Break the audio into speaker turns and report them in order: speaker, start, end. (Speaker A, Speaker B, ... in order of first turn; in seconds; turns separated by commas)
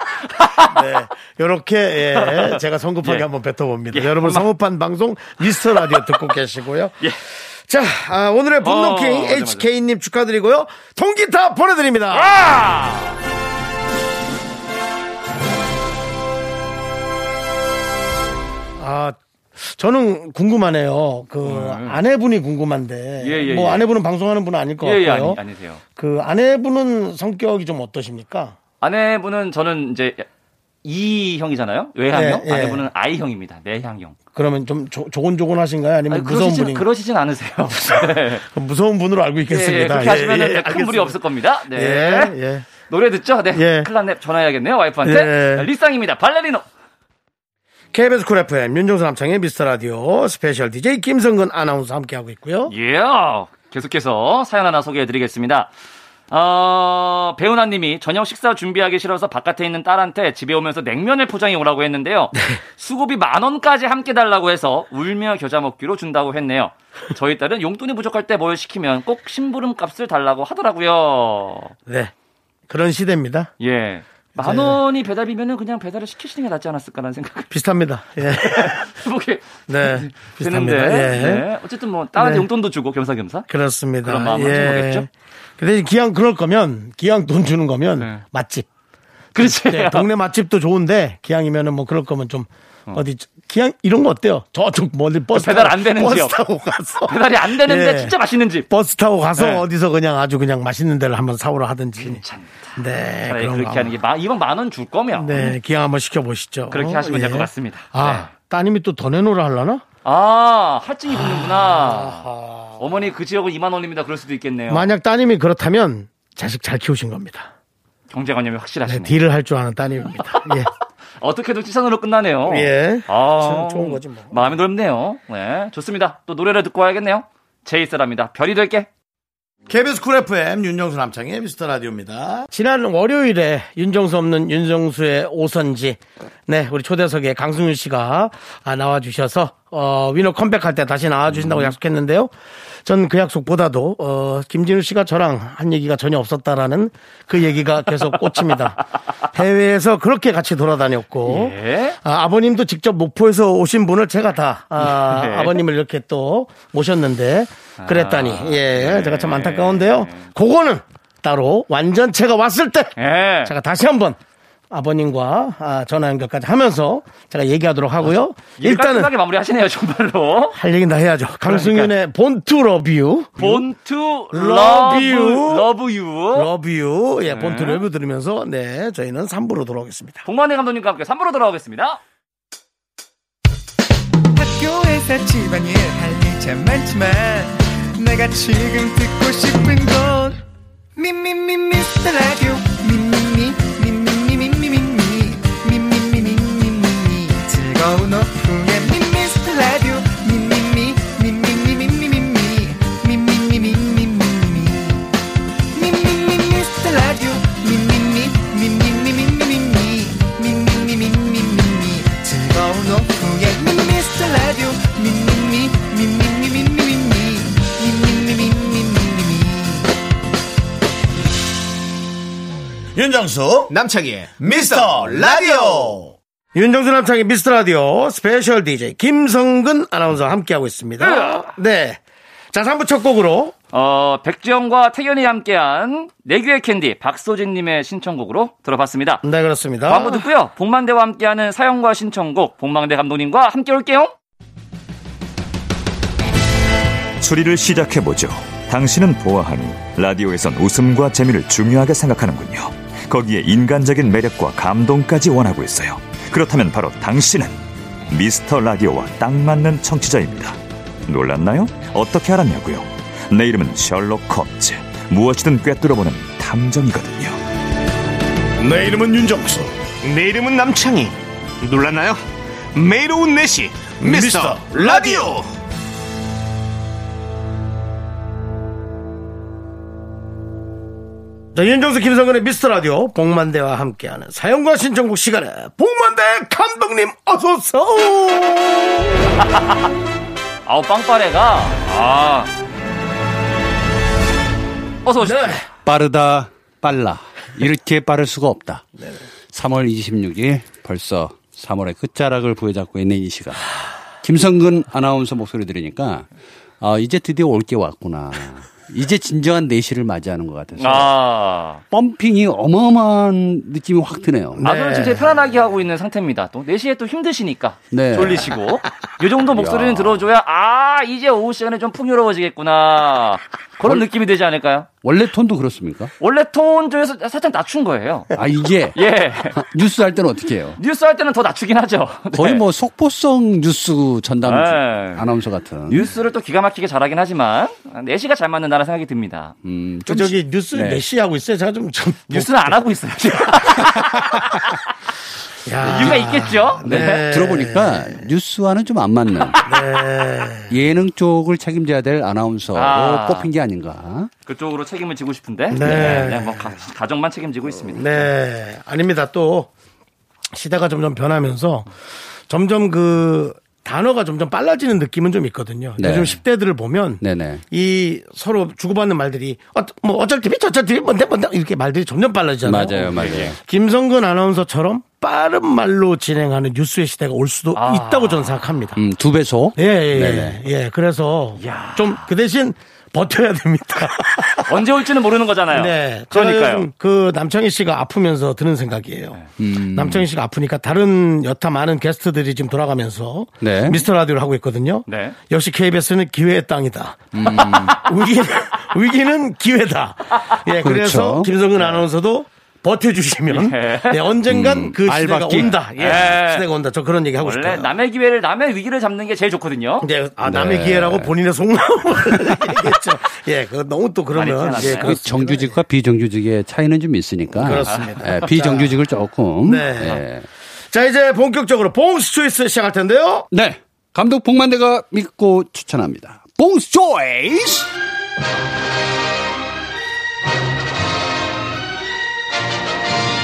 Speaker A: 0.3-0.8, Speaker B: 0.6-12.4, Speaker A: 2.2-3.3, Speaker A: 3.9-4.5, Speaker A: 8.6-9.7, Speaker A: 12.1-13.2, Speaker B: 18.8-25.4, Speaker A: 21.4-22.0, Speaker A: 23.2-23.9, Speaker A: 24.8-25.8, Speaker B: 26.0-28.6, Speaker A: 28.8-30.2, Speaker A: 30.8-34.1, Speaker B: 32.1-32.9, Speaker B: 34.3-36.9, Speaker A: 36.1-38.4, Speaker B: 38.4-41.2, Speaker A: 39.5-46.6, Speaker B: 41.7-42.7, Speaker B: 43.5-43.9, Speaker B: 45.0-45.7, Speaker B: 47.9-52.7, Speaker A: 52.7-55.7, Speaker A: 56.3-71.7, Speaker B: 71.9-72.1, Speaker B: 72.7-73.5, Speaker A: 73.6-77.5, Speaker B: 74.4-74.8, Speaker B: 77.5-78.9, Speaker A: 78.2-83.5, Speaker B: 79.7-81.5, Speaker B: 82.2-82.5, Speaker B: 83.5-88.7, Speaker A: 84.0-85.1, Speaker A: 89.3-90.1, Speaker B: 89.3-98.2, Speaker A: 95.3-96.4, Speaker A: 97.1-98.7, Speaker B: 98.7-102.2, Speaker A: 99.4-99.7, Speaker A: 102.0-105.6, Speaker B: 102.8-104.0, Speaker B: 105.2-109.8, Speaker A: 106.7-108.3, Speaker A: 110.0-114.9, Speaker B: 111.1-113.1, Speaker B: 114.7-117.5, Speaker A: 118.1-119.2, Speaker B: 118.9-120.7, Speaker A: 121.2-128.9, Speaker B: 122.5-124.5, Speaker B: 129.7-142.3, Speaker B: 142.8-164.2, Speaker A: 151.2-152.0, Speaker A: 154.8-155.6, Speaker A: 157.8-160.3, Speaker A: 163.0-163.5, Speaker B: 164.7-169.1, Speaker A: 168.0-170.6, Speaker B: 170.5-173.7, Speaker A: 171.4-171.9, Speaker A: 173.4-176.5, Speaker B: 174.3-175.7, Speaker B: 176.3-180.3, Speaker A: 177.3-177.8, Speaker A: 180.2-182.0, Speaker C: 184.3-190.4, Speaker C: 191.0-205.1, Speaker C: 205.7-219.9, Speaker B: 223.0-223.7, Speaker D: 223.7-226.1, Speaker B: 224.7-225.7, Speaker B: 226.6-232.0, Speaker A: 231.0-231.5, Speaker B: 232.5-233.6, Speaker A: 233.7-239.2, Speaker B: 239.2-240.3, Speaker A: 239.9-244.1, Speaker E: 247.2-267.4, Speaker B: 268.6-269.7, Speaker D: 270.0-272.2, Speaker D: 272.8-275.4, Speaker B: 274.0-275.3, Speaker B: 281.6-289.3, Speaker A: 289.4-289.9, Speaker A: 290.7-292.5, Speaker A: 295.1-295.6, Speaker B: 295.2-295.6, Speaker F: 295.9-298.9, Speaker F: 299.5-303.7, Speaker F: 304.2-306.3, Speaker F: 306.8-311.1, Speaker A: 310.8-311.8, Speaker F: 311.9-314.7, Speaker B: 314.6-315.4, Speaker A: 314.6-324.9, Speaker F: 317.9-318.5, Speaker F: 319.5-320.3, Speaker F: 325.0-326.1, Speaker A: 326.2-328.3, Speaker F: 328.4-329.0, Speaker A: 328.9-329.6, Speaker F: 329.5-330.8, Speaker A: 330.8-332.6, Speaker F: 332.3-336.1, Speaker A: 334.4-335.3, Speaker A: 335.9-339.6, Speaker F: 339.6-341.0, Speaker B: 340.1-342.8, Speaker A: 342.3-344.8, Speaker B: 343.7-344.5, Speaker B: 345.6-348.2, Speaker A: 345.8-347.3, Speaker F: 346.9-349.7, Speaker B: 349.6-350.8, Speaker F: 350.7-354.3, Speaker A: 352.7-353.5, Speaker A: 354.5-358.3, Speaker B: 355.7-356.7, Speaker F: 355.8-356.3, Speaker B: 357.8-359.7, Speaker B: 360.5-361.9, Speaker B: 362.5-379.0, Speaker F: 366.0-366.4, Speaker F: 367.2-367.6, Speaker F: 372.6-373.6, Speaker A: 373.1-373.5, Speaker A: 377.8-378.6, Speaker F: 379.0-380.6, Speaker B: 379.8-384.8, Speaker A: 381.6-382.3, Speaker A: 384.6-386.9, Speaker B: 385.7-407.9, Speaker F: 389.6-390.3, Speaker F: 393.6-394.0, Speaker A: 395.1-395.4, Speaker F: 397.3-398.0, Speaker F: 400.8-401.5, Speaker A: 403.5-404.3, Speaker F: 404.5-406.2, Speaker A: 406.0-406.7, Speaker A: 407.4-410.1, Speaker B: 410.0-415.8, Speaker F: 410.4-411.3, Speaker A: 414.3-415.1, Speaker F: 414.7-420.5, Speaker B: 417.5-419.0, Speaker A: 417.9-418.2, Speaker B: 419.6-420.2, Speaker B: 420.9-423.5, Speaker F: 423.5-427.9